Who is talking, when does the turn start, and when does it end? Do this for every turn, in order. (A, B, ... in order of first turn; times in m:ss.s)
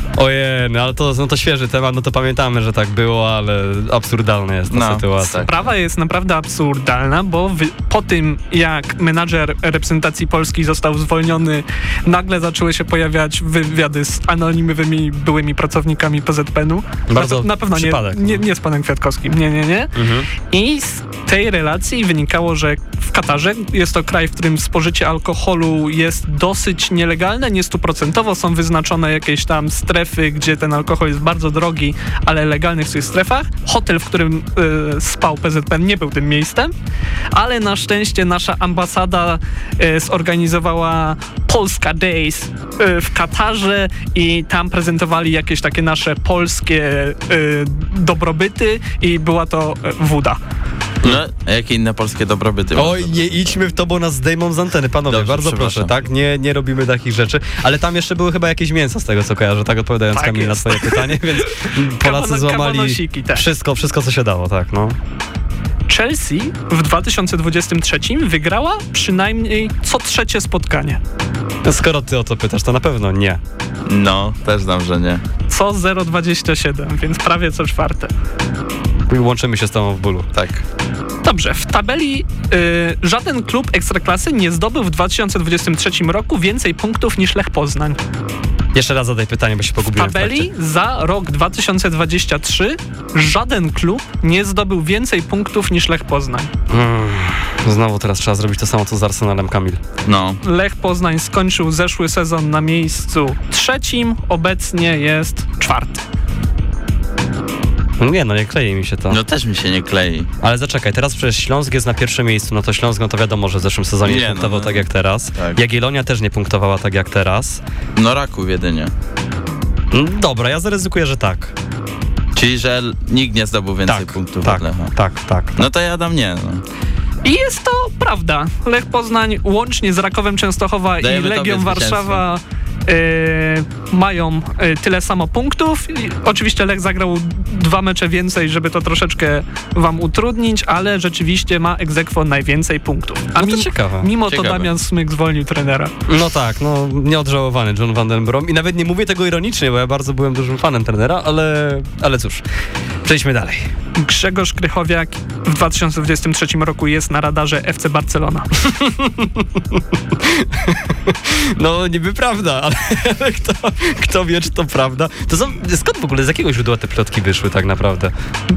0:00.2-0:05.4 A
0:04.7-0:05.7 B
0:05.4-0:19.9 C
0:17.1-0:18.4 A
0:19.9-0:20.3 A
0:20.5-0:36.7 C
0:37.3-0:50.4 C
0:51.0-0:53.6 B
0:52.7-1:05.0 A
0:55.1-0:56.0 B
1:00.1-1:03.4 C
1:05.9-1:11.0 C
1:11.6-1:13.4 A
1:13.9-1:15.2 B
1:15.5-1:18.1 C
1:19.1-1:20.3 A
1:20.3-1:20.6 B
1:21.2-1:28.0 C
1:28.7-1:30.5 A
1:29.9-1:36.5 C
1:36.7-1:39.8 A
1:40.0-1:40.4 B
1:40.4-1:46.1 C
1:48.0-1:49.2 A
1:49.1-1:50.3 B
1:50.4-1:57.6 A
1:54.0-1:55.6 B
1:58.0-1:58.9 B
1:59.9-2:01.5 A
2:02.3-2:04.9 B
2:03.9-2:05.6 A
2:05.6-2:06.6 B
2:07.2-2:25.9 C
2:11.0-2:12.2 B
2:23.4-2:24.1 A
2:24.3-2:24.7 B
2:26.1-2:32.4 A
2:33.0-2:33.7 A
2:33.9-2:38.5 C
2:38.6-2:48.1 A